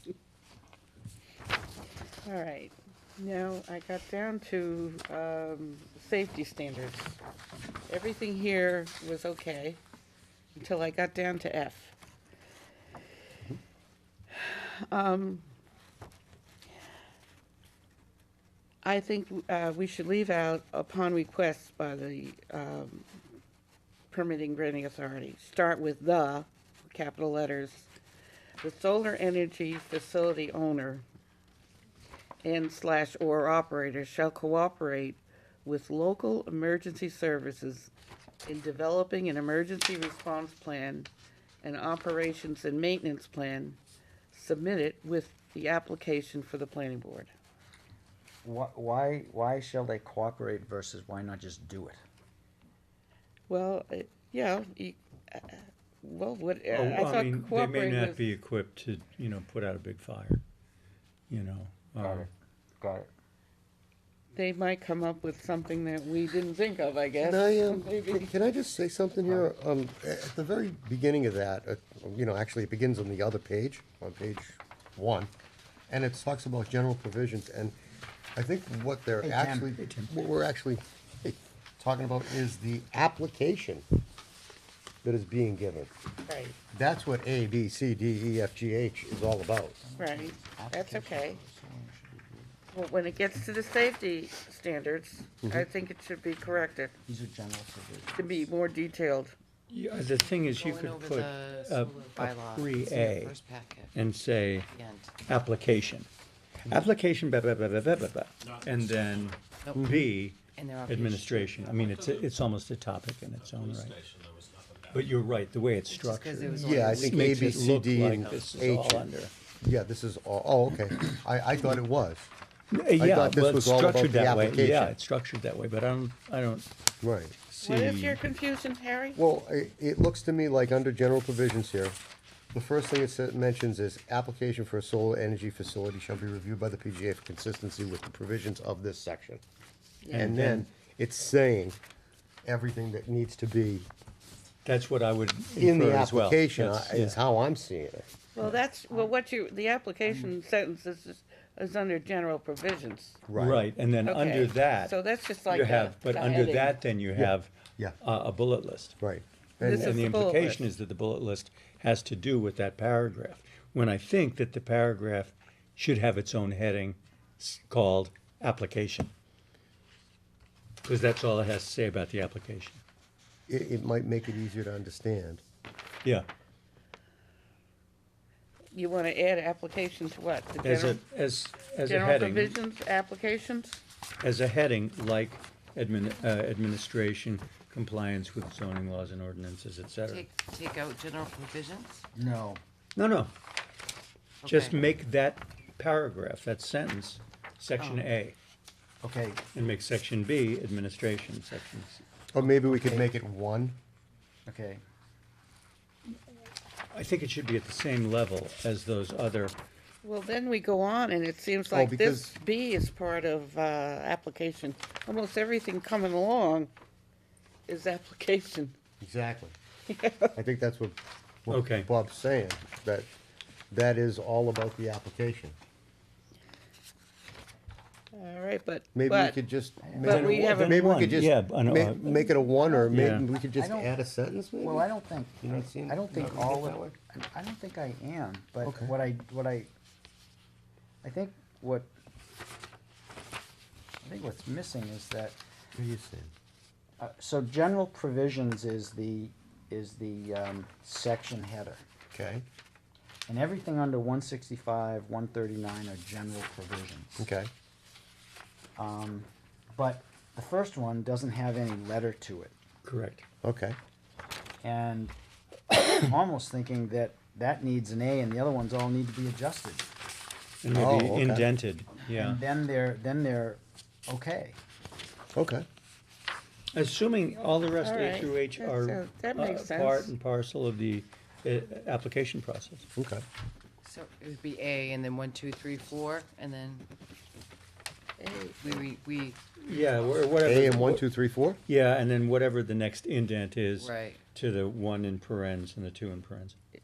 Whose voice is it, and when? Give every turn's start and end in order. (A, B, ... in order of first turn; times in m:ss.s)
0:02.2-0:07.2 A
0:07.9-0:09.8 A
0:10.5-0:11.9 A
0:14.3-0:15.5 A
0:18.8-0:23.1 A
0:24.1-0:27.9 A
0:28.6-0:31.0 A
0:32.4-0:37.9 A
0:38.4-0:41.1 A
0:41.6-0:43.8 A
0:44.3-0:47.3 A
0:48.4-0:52.0 B
0:53.5-0:58.2 A
0:56.7-1:00.4 C
1:01.3-1:02.3 C
1:02.0-1:02.3 B
1:02.8-1:03.1 B
1:04.3-1:08.3 A
1:07.2-1:15.3 D
1:15.9-1:17.8 D
1:18.4-1:23.8 D
1:19.2-1:19.7 B
1:19.8-1:20.1 C
1:25.0-1:25.9 D
1:26.3-1:26.6 A
1:26.7-1:29.8 D
1:29.8-1:32.5 B
1:30.0-1:31.4 A
1:32.7-1:37.0 A
1:37.0-1:38.5 B
1:38.1-1:39.4 A
1:39.7-1:43.4 C
1:40.5-1:43.9 E
1:43.9-1:44.7 C
1:44.7-1:45.1 E
1:45.2-1:46.1 C
1:46.6-1:54.0 C
1:48.4-1:49.4 F
1:49.6-1:49.9 E
1:50.6-1:51.7 E
1:51.6-1:52.3 F
1:53.4-1:55.2 F
1:54.9-1:59.3 C
1:55.9-1:58.4 E
1:56.6-2:02.3 D
2:02.7-2:06.7 C
2:03.0-2:04.9 D
2:07.0-2:07.4 D
2:07.5-2:08.2 C
2:07.6-2:09.2 A
2:09.2-2:12.0 D
2:12.5-2:19.4 D
2:20.0-2:20.3 A
2:20.1-2:20.7 C
2:20.1-2:21.8 D
2:22.4-2:23.9 D
2:24.6-2:27.2 C
2:25.6-2:28.1 D
2:28.4-2:33.2 A
2:33.3-2:33.6 D
2:33.3-2:34.9 C
2:34.0-2:36.8 A
2:35.5-2:39.0 C
2:37.1-2:38.0 D
2:39.0-2:40.0 D
2:39.6-2:40.7 A
2:39.6-2:49.1 C
2:50.8-2:52.8 C
2:53.5-2:55.4 D
2:58.7-3:01.0 A
3:00.6-3:02.6 C
3:01.8-3:03.8 A
3:04.2-3:10.3 C
3:10.0-3:12.0 E
3:12.1-3:12.6 B
3:13.0-3:13.3 C
3:14.4-3:14.8 E
3:14.4-3:18.4 C
3:17.8-3:18.1 E
3:19.0-3:19.4 B
3:19.5-3:22.0 C
3:22.3-3:23.8 D
3:22.4-3:23.1 B
3:24.4-3:24.8 B
3:26.9-3:29.6 C
3:30.0-3:36.7 A
3:31.7-3:32.4 D
3:37.7-3:38.7 A
3:39.0-3:39.6 D
3:39.9-3:40.3 A
3:40.3-3:43.1 D
3:41.5-3:41.9 C
3:43.7-3:45.6 D
3:48.1-3:49.4 A
3:48.9-3:54.9 D
3:49.8-3:50.1 B
3:50.0-3:50.8 A
3:50.0-3:52.3 C
3:52.7-3:53.9 B
3:52.9-3:53.3 C
3:54.6-3:59.7 B
3:55.4-3:56.9 D
3:58.6-3:58.9 D
4:01.0-4:01.9 B
4:04.0-4:05.4 B
4:05.7-4:06.3 D
4:07.0-4:11.8 B
4:12.1-4:12.4 D
4:13.3-4:17.3 B
4:17.2-4:17.5 D
4:18.8-4:22.5 B
4:22.8-4:23.2 C
4:23.4-4:23.8 D
4:24.6-4:25.1 B
4:25.7-4:29.9 B
4:30.6-4:32.4 C
4:30.7-4:31.5 D
4:32.0-4:34.6 B
4:35.3-4:35.6 D
4:36.7-4:42.8 C
4:37.8-4:40.1 A
4:43.0-4:43.2 D
4:43.8-4:46.9 E
4:48.2-4:48.9 A
4:48.6-4:49.4 E
4:49.6-4:51.0 C
4:50.4-4:51.6 D
4:51.6-4:56.6 C
4:53.8-4:54.2 E